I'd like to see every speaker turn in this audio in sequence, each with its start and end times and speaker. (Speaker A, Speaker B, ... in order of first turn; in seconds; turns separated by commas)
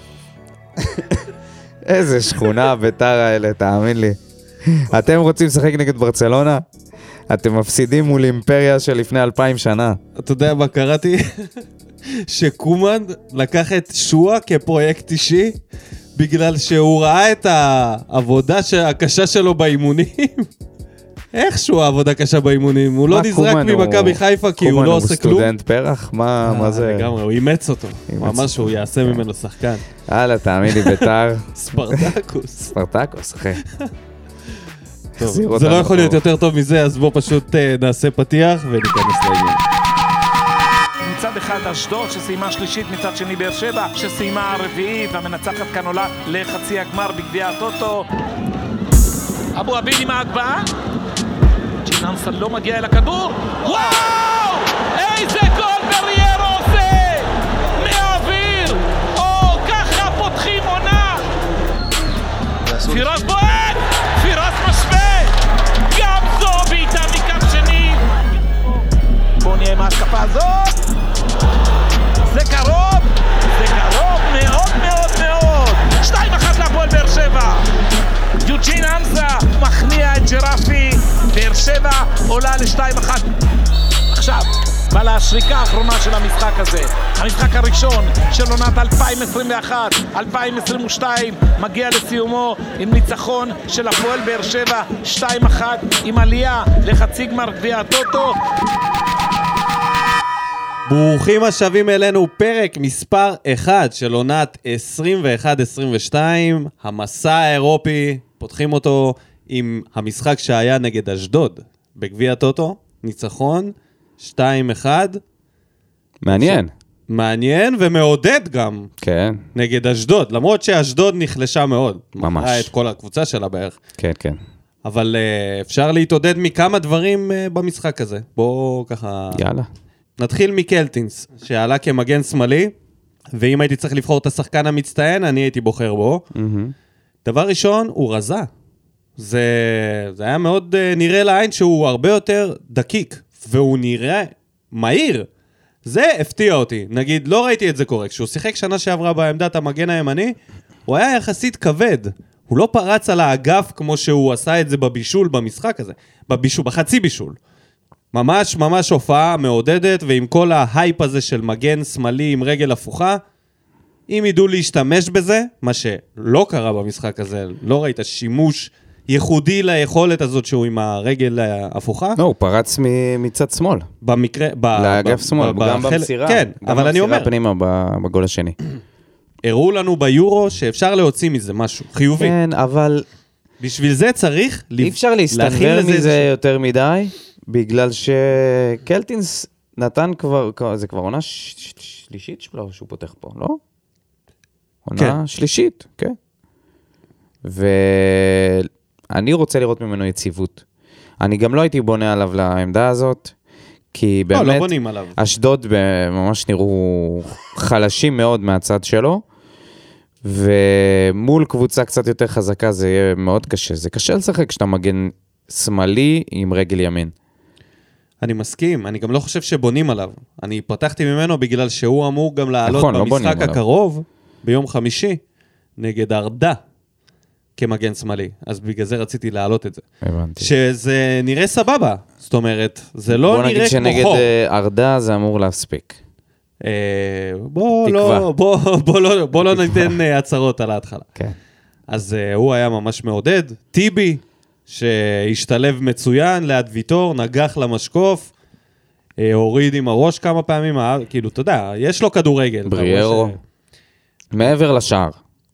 Speaker A: 0.8-1.1, Speaker A: 1.8-6.6, Speaker A: 7.3-10.0, Speaker B: 10.2-11.5, Speaker B: 12.2-15.6, Speaker B: 16.2-20.5, Speaker B: 21.3-25.5, Speaker A: 23.1-27.1, Speaker B: 26.4-29.9, Speaker A: 28.1-29.2, Speaker A: 30.1-32.1, Speaker B: 30.7-32.8, Speaker A: 32.7-33.6, Speaker A: 35.2-36.2, Speaker B: 35.2-39.6, Speaker C: 41.0-48.1, Speaker C: 49.5-50.7, Speaker C: 51.8-61.3, Speaker C: 62.8-65.4, Speaker C: 65.9-68.8, Speaker C: 69.4-70.8, Speaker C: 72.3-77.7, Speaker C: 78.4-83.3, Speaker C: 84.1-98.4, Speaker B: 100.9-115.2, Speaker A: 116.2-116.7, Speaker B: 116.3-118.9, Speaker A: 119.0-119.4, Speaker B: 119.5-123.8, Speaker A: 122.2-122.7, Speaker A: 124.0-124.4, Speaker B: 124.8-129.4, Speaker A: 129.3-129.7, Speaker B: 130.2-132.7, Speaker B: 133.3-136.2, Speaker A: 136.3-136.7, Speaker B: 137.2-138.5, Speaker B: 139.2-145.3, Speaker B: 145.8-150.3, Speaker B: 150.9-157.4, Speaker B: 158.1-163.2, Speaker B: 164.1-172.2, Speaker A: 172.2-173.9, Speaker B: 174.0-177.3, Speaker A: 174.8-178.6, Speaker B: 179.4-182.4, Speaker A: 182.2-183.1, Speaker B: 183.6-186.3, Speaker A: 184.8-193.6, Speaker A: 194.8-196.2, Speaker A: 197.4-200.6, Speaker A: 201.2-203.3, Speaker A: 203.9-209.2, Speaker B: 204.3-205.2, Speaker A: 210.2-217.1, Speaker B: 218.2-225.2, Speaker A: 222.7-223.6, Speaker B: 225.8-226.6, Speaker B: 227.6-229.8, Speaker A: 230.0-230.5, Speaker B: 230.4-234.3, Speaker A: 233.1-236.0, Speaker B: 236.6-241.1, Speaker A: 237.8-238.3, Speaker A: 239.5-240.0, Speaker B: 241.9-248.3, Speaker B: 249.2-253.4, Speaker A: 252.7-253.3, Speaker A: 254.3-255.2